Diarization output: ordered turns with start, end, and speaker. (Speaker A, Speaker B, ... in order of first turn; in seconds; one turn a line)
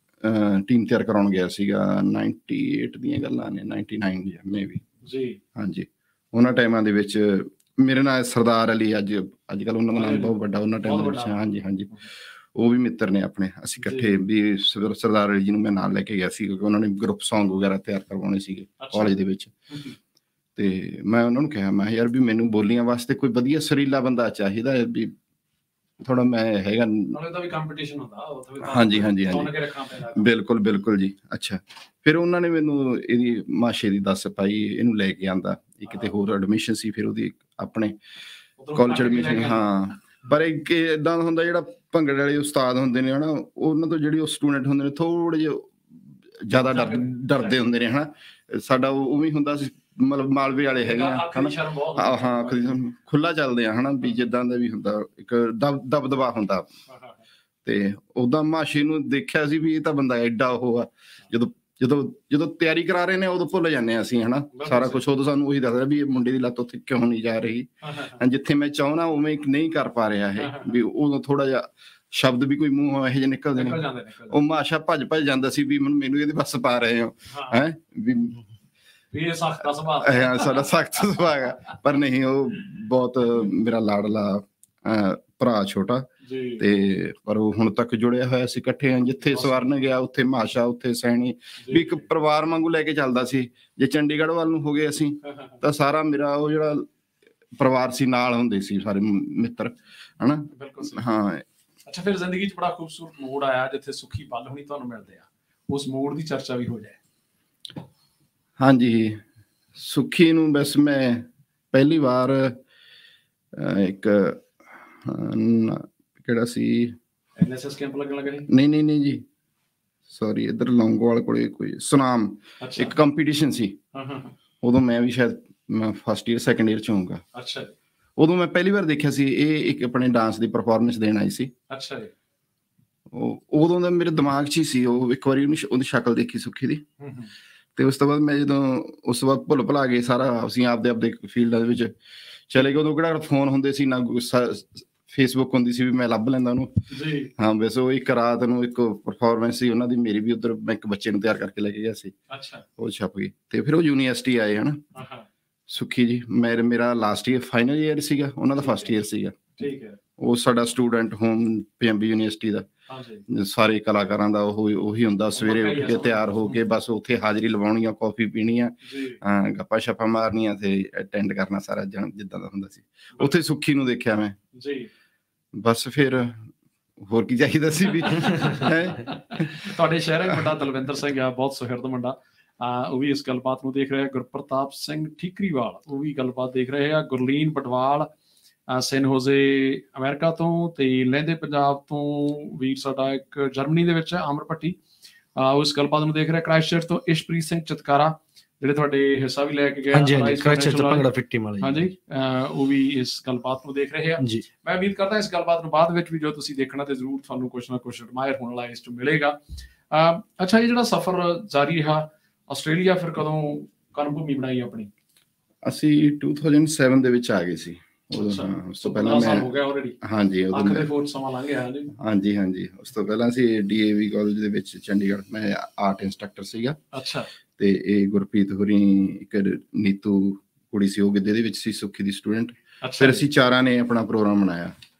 Speaker A: 0.2-4.8
Speaker B: 5.0-5.4
Speaker A: 5.5-11.9
Speaker B: 9.9-10.3
Speaker B: 10.8-11.4
Speaker A: 12.5-19.5
Speaker B: 13.8-14.1
Speaker B: 18.8-19.1
Speaker A: 20.6-25.1
Speaker A: 26.0-27.1
Speaker B: 27.1-30.3
Speaker A: 28.6-29.5
Speaker A: 30.1-38.0
Speaker B: 38.6-39.6
Speaker A: 38.7-45.8
Speaker A: 46.4-56.7
Speaker B: 46.6-47.6
Speaker B: 50.8-52.8
Speaker B: 56.9-57.1
Speaker A: 57.6-78.4
Speaker B: 64.5-65.0
Speaker B: 67.8-68.2
Speaker B: 70.4-70.8
Speaker B: 73.5-74.4
Speaker B: 77.3-77.6
Speaker B: 79.1-80.7
Speaker A: 80.0-96.9
Speaker B: 86.2-86.6
Speaker B: 89.2-89.7
Speaker B: 91.6-92.0
Speaker B: 95.2-95.6
Speaker A: 97.6-101.4
Speaker B: 100.5-101.0
Speaker B: 101.8-107.0
Speaker A: 108.6-109.2
Speaker A: 109.7-112.6
Speaker A: 113.5-114.5
Speaker A: 115.0-117.0
Speaker B: 117.4-118.5
Speaker A: 118.5-119.2
Speaker A: 120.1-123.8
Speaker B: 122.6-122.9
Speaker B: 123.9-124.3
Speaker A: 124.6-127.2
Speaker B: 127.3-127.7
Speaker A: 128.2-131.5
Speaker B: 131.7-132.1
Speaker A: 133.1-136.8
Speaker B: 137.0-137.3
Speaker A: 137.8-141.9
Speaker A: 142.5-146.8
Speaker B: 146.9-147.3
Speaker A: 147.3-152.1
Speaker B: 152.3-152.6
Speaker A: 152.8-154.8
Speaker B: 154.9-155.3
Speaker A: 155.7-159.4
Speaker B: 158.6-159.0
Speaker B: 159.6-160.0
Speaker A: 160.2-162.7
Speaker B: 162.9-163.2
Speaker A: 163.3-174.4
Speaker B: 165.4-166.5
Speaker B: 168.8-169.2
Speaker B: 174.5-174.9
Speaker A: 175.5-176.5
Speaker A: 177.0-179.7
Speaker B: 178.0-188.1
Speaker B: 188.7-194.8
Speaker B: 195.3-201.1
Speaker C: 199.9-201.9
Speaker B: 201.6-209.4
Speaker B: 209.9-214.9
Speaker A: 215.6-219.5
Speaker B: 218.2-220.0
Speaker A: 220.0-220.9
Speaker B: 220.5-221.9
Speaker A: 221.9-226.8
Speaker B: 226.9-227.3
Speaker A: 227.6-234.7
Speaker B: 232.8-233.2